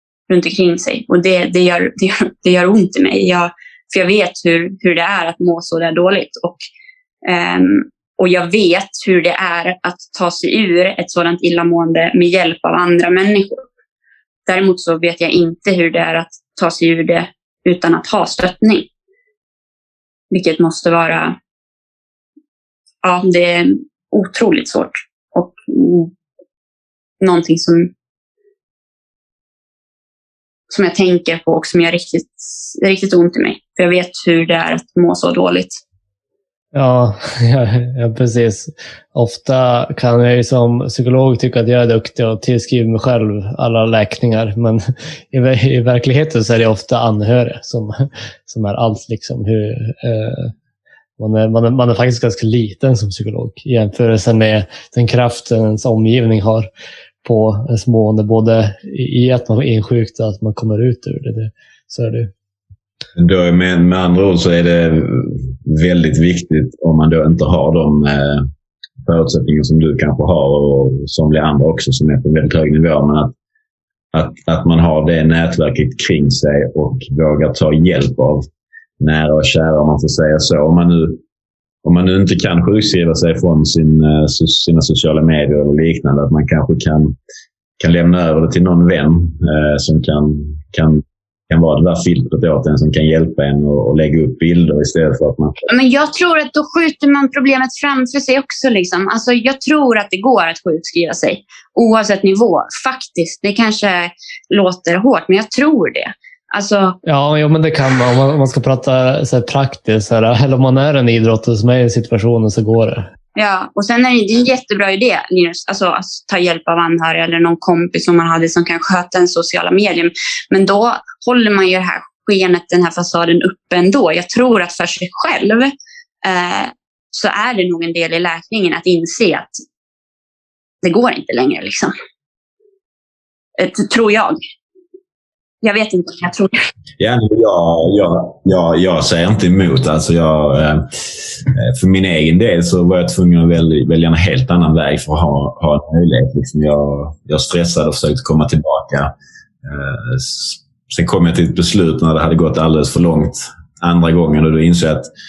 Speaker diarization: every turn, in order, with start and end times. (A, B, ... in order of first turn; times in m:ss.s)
0:00.3-0:06.6 A
0:07.2-0:13.6 A
0:14.4-0:18.9 A
0:20.3-0:21.4 A
0:23.0-0:26.1 A
0:27.2-0:27.9 A
0:30.7-0:35.8 A
0:36.7-0:50.5 B
0:51.2-0:56.7 B
0:57.2-1:02.3 B
1:03.2-1:08.4 C
1:09.0-1:13.3 C
1:14.1-1:18.5 C
1:19.0-1:21.2 C
1:21.8-1:27.2 C
1:27.8-1:35.6 C
1:35.7-1:47.0 A
1:47.0-1:53.1 B
1:53.4-2:05.7 A
2:06.2-2:09.6 A
2:10.8-2:11.9 A
2:13.6-2:14.4 A
2:15.6-2:16.7 A
2:17.0-2:29.1 C
2:29.6-2:35.1 C